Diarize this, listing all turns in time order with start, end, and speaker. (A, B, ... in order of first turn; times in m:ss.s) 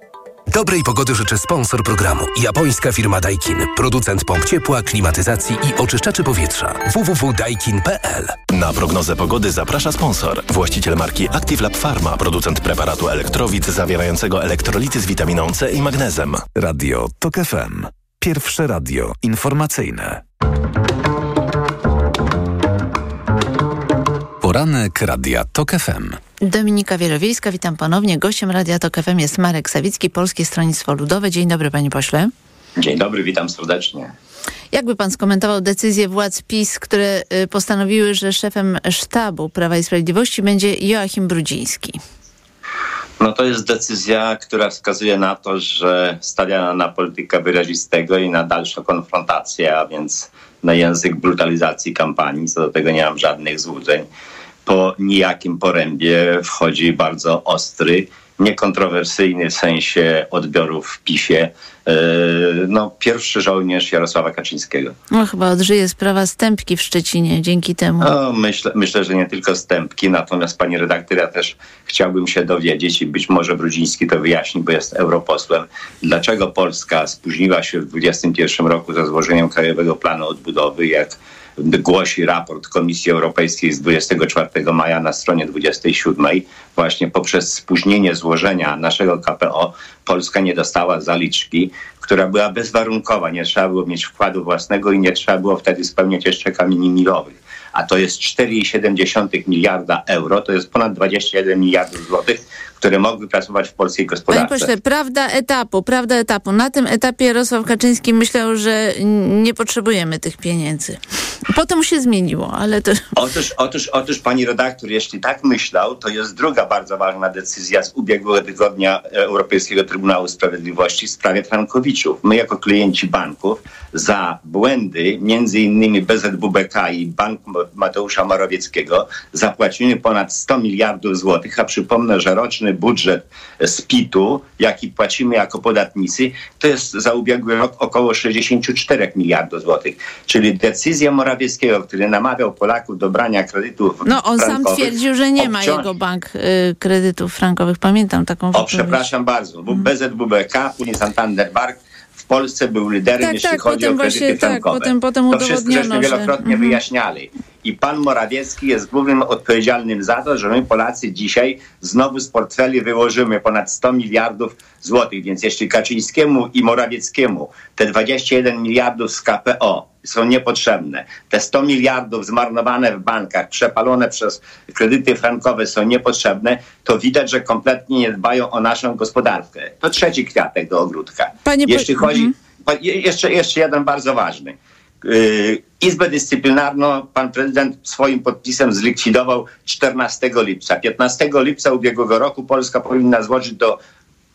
0:00.5-0:08.4 A
0:08.6-0:16.4 B
0:16.5-0:20.2 C
0:24.4-0:26.2 C
0:26.4-0:32.3 D
0:32.8-0:34.1 E
0:34.7-0:42.0 D
0:43.2-0:54.0 E
0:54.6-1:04.9 E
1:05.1-1:08.1 D
1:08.0-1:44.7 E
1:44.3-1:51.0 D
1:51.5-1:53.0 D
1:53.2-2:25.8 E
2:24.0-2:29.0 D
2:28.5-3:13.8 E
2:33.2-2:36.8 D
3:01.4-3:02.3 D